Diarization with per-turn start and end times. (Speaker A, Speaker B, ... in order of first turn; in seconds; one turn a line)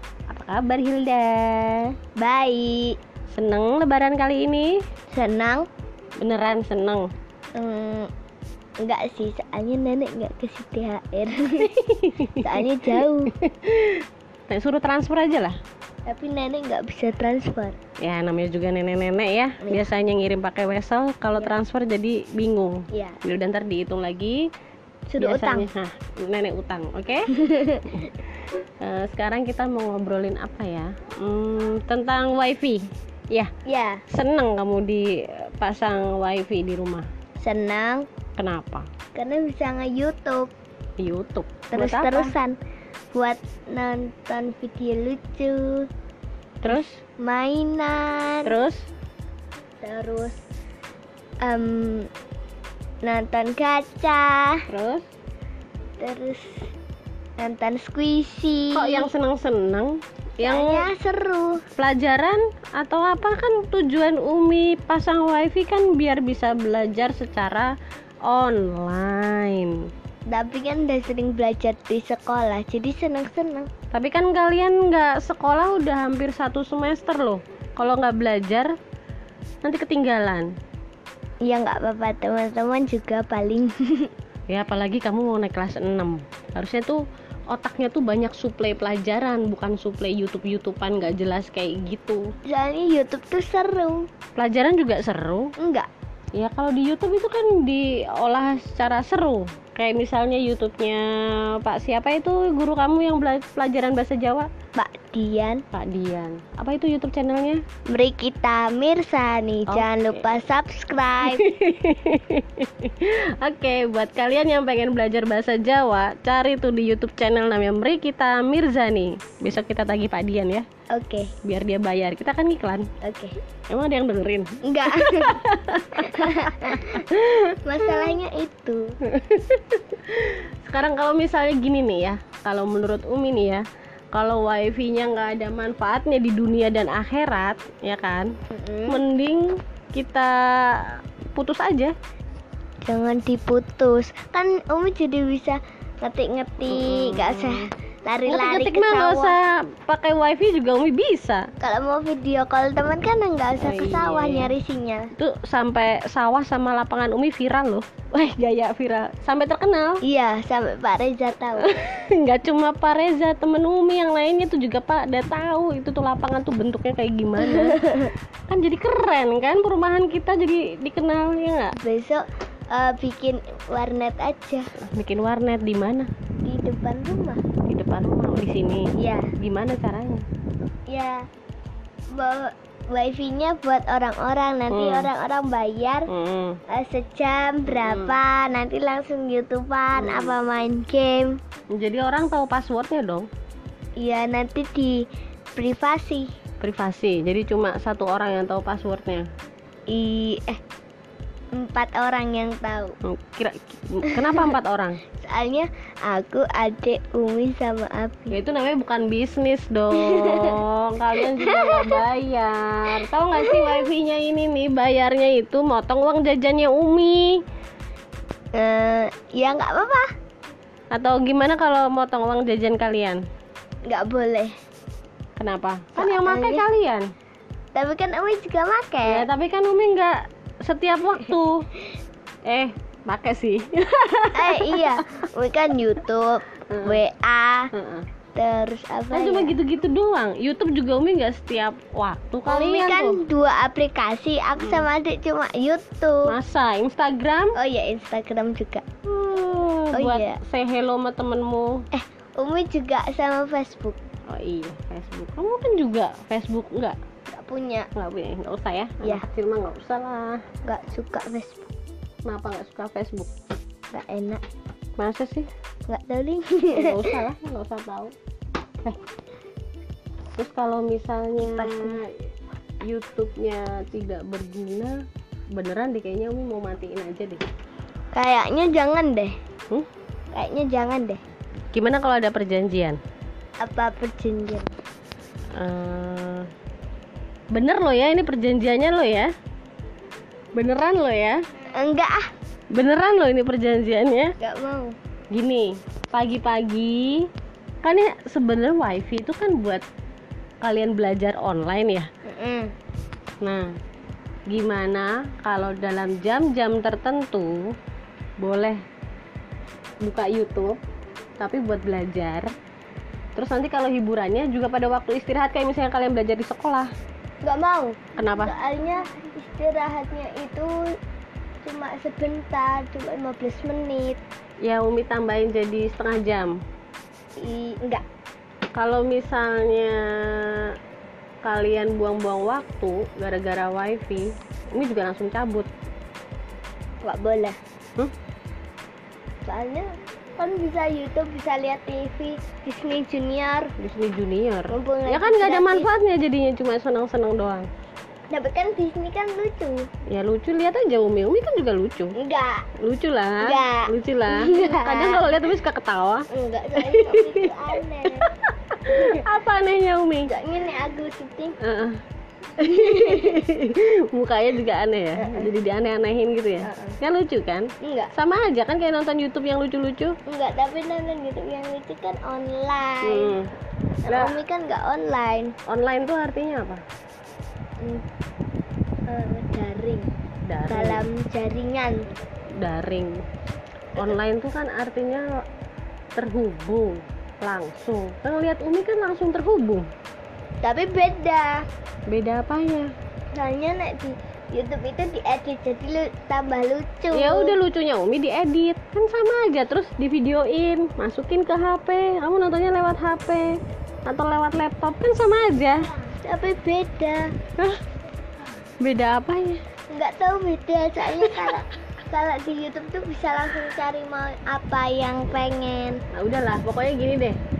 Speaker A: 0.3-1.9
Speaker B: 2.2-3.0
Speaker A: 3.3-4.8
Speaker B: 5.1-5.7
Speaker A: 6.2-7.1
Speaker B: 7.5-8.1
Speaker B: 8.8-11.7
Speaker A: 11.6-12.6
Speaker B: 12.3-13.3
Speaker A: 13.3-15.6
Speaker B: 16.1-17.8
Speaker A: 18.0-24.5
Speaker B: 22.9-23.2
Speaker B: 25.1-25.7
Speaker A: 25.2-27.3
Speaker B: 27.3-28.1
Speaker A: 28.8-33.5
Speaker B: 33.6-34.0
Speaker A: 34.1-37.1
Speaker B: 37.4-38.1
Speaker A: 38.4-38.9
Speaker B: 39.1-40.5
Speaker A: 41.0-42.3
Speaker B: 41.7-42.5
Speaker B: 43.1-45.9
Speaker A: 46.6-47.0
Speaker B: 46.7-48.5
Speaker A: 48.4-48.9
Speaker B: 49.8-50.4
Speaker B: 51.4-52.1
Speaker B: 53.0-54.6
Speaker A: 54.7-55.0
Speaker B: 56.0-56.7
Speaker B: 57.4-59.1
Speaker A: 58.7-60.9
Speaker B: 60.4-61.6
Speaker A: 61.8-67.7
Speaker A: 68.2-69.9
Speaker B: 70.3-73.7
Speaker A: 73.9-78.7
Speaker A: 79.6-80.5
Speaker B: 81.4-84.1
Speaker A: 84.5-92.2
Speaker B: 92.5-94.1
Speaker A: 94.3-95.5
Speaker B: 95.6-95.9
Speaker A: 96.3-104.5
Speaker B: 104.8-105.6
Speaker A: 105.7-107.6
Speaker B: 107.9-111.5
Speaker A: 109.7-110.4
Speaker A: 111.2-120.7
Speaker B: 120.9-121.3
Speaker A: 121.4-122.9
Speaker B: 123.0-123.3
Speaker A: 123.7-128.1
Speaker B: 124.6-125.4
Speaker B: 125.9-127.0
Speaker B: 127.6-128.8
Speaker A: 129.0-138.3
Speaker B: 138.5-139.0
Speaker A: 138.9-141.9
Speaker B: 142.8-149.3
Speaker A: 146.6-147.7
Speaker A: 148.3-151.5
Speaker B: 151.6-155.1
Speaker A: 153.6-154.5
Speaker A: 155.1-160.0
Speaker B: 160.0-161.7
Speaker A: 161.6-171.8
Speaker B: 167.4-168.1
Speaker B: 171.8-174.7
Speaker A: 174.8-176.1
Speaker B: 176.4-177.4
Speaker A: 177.7-180.2
Speaker B: 179.0-179.3
Speaker B: 180.9-181.2
Speaker B: 182.1-186.1
Speaker A: 184.7-185.1
Speaker A: 186.1-186.6
Speaker B: 186.7-191.4
Speaker A: 187.7-188.2
Speaker A: 189.9-190.3
Speaker A: 191.7-193.3
Speaker B: 194.0-196.3
Speaker A: 196.6-199.3
Speaker B: 199.9-200.6
Speaker B: 201.5-202.9
Speaker A: 203.0-205.0
Speaker B: 204.1-204.5
Speaker B: 205.2-208.4
Speaker A: 208.3-217.4
Speaker B: 209.9-210.6
Speaker B: 211.2-212.0
Speaker B: 213.0-213.9
Speaker B: 218.6-220.1
Speaker A: 220.9-223.2
Speaker B: 223.9-224.5
Speaker A: 225.4-227.1
Speaker B: 225.9-226.6
Speaker B: 227.7-229.3
Speaker A: 229.1-231.7
Speaker A: 232.4-235.0
Speaker B: 234.3-237.7
Speaker A: 236.7-237.0
Speaker A: 237.7-238.1
Speaker B: 238.3-239.6
Speaker A: 239.1-243.2
Speaker B: 242.4-246.3
Speaker A: 244.6-244.8
Speaker A: 246.2-247.5
Speaker B: 247.6-248.8
Speaker A: 249.0-251.8
Speaker B: 249.9-250.4
Speaker B: 251.9-254.0
Speaker A: 254.3-257.0
Speaker B: 257.3-257.9
Speaker A: 257.9-260.4
Speaker B: 260.6-261.7
Speaker A: 262.2-263.3
Speaker B: 263.9-264.4
Speaker A: 265.0-265.5
Speaker B: 265.9-267.1
Speaker A: 266.7-268.1
Speaker A: 270.3-272.2
Speaker B: 271.4-272.0
Speaker A: 272.9-275.0
Speaker A: 275.5-277.4
Speaker B: 278.1-279.4
Speaker B: 280.3-281.2
Speaker A: 281.7-283.0
Speaker B: 283.6-284.7
Speaker A: 285.5-286.5
Speaker A: 287.5-289.3
Speaker A: 290.6-291.4
Speaker B: 291.7-292.3
Speaker A: 292.7-294.3
Speaker B: 294.4-294.9
Speaker A: 295.3-297.3
Speaker A: 297.8-299.8
Speaker A: 300.6-302.1
Speaker B: 302.2-302.7
Speaker A: 303.4-303.7
Speaker A: 304.5-307.7
Speaker A: 308.4-308.8
Speaker A: 310.0-310.8
Speaker A: 311.4-312.5
Speaker A: 313.3-316.9
Speaker B: 317.4-320.9
Speaker A: 318.1-318.5
Speaker B: 321.6-324.2
Speaker A: 324.6-326.6
Speaker B: 327.4-328.0
Speaker A: 328.7-330.8
Speaker A: 331.4-335.7
Speaker B: 337.0-337.6
Speaker B: 339.4-343.7
Speaker A: 343.8-347.7
Speaker B: 344.7-345.9
Speaker B: 348.3-349.9
Speaker A: 350.1-352.1
Speaker B: 352.1-352.7
Speaker A: 352.8-356.2
Speaker B: 353.4-355.4
Speaker B: 356.3-358.3
Speaker A: 356.8-360.3
Speaker B: 360.3-361.6
Speaker A: 361.6-362.0
Speaker A: 362.6-370.2
Speaker B: 362.6-363.4
Speaker B: 365.2-365.5
Speaker B: 366.6-367.0
Speaker B: 367.8-368.1
Speaker B: 370.3-373.3
Speaker A: 373.0-373.5
Speaker B: 374.1-375.5
Speaker A: 374.1-374.4
Speaker A: 375.7-376.8
Speaker B: 377.8-378.0
Speaker B: 379.1-380.1
Speaker A: 380.5-381.0
Speaker B: 380.7-382.1
Speaker A: 382.6-383.2
Speaker A: 383.9-385.4
Speaker A: 386.1-389.9
Speaker B: 390.6-391.7
Speaker A: 392.1-392.9
Speaker B: 393.3-397.6
Speaker A: 397.1-405.9
Speaker B: 406.0-407.3
Speaker A: 407.6-407.8
Speaker A: 408.8-409.6
Speaker B: 409.9-416.0
Speaker A: 411.2-411.5
Speaker A: 416.1-417.4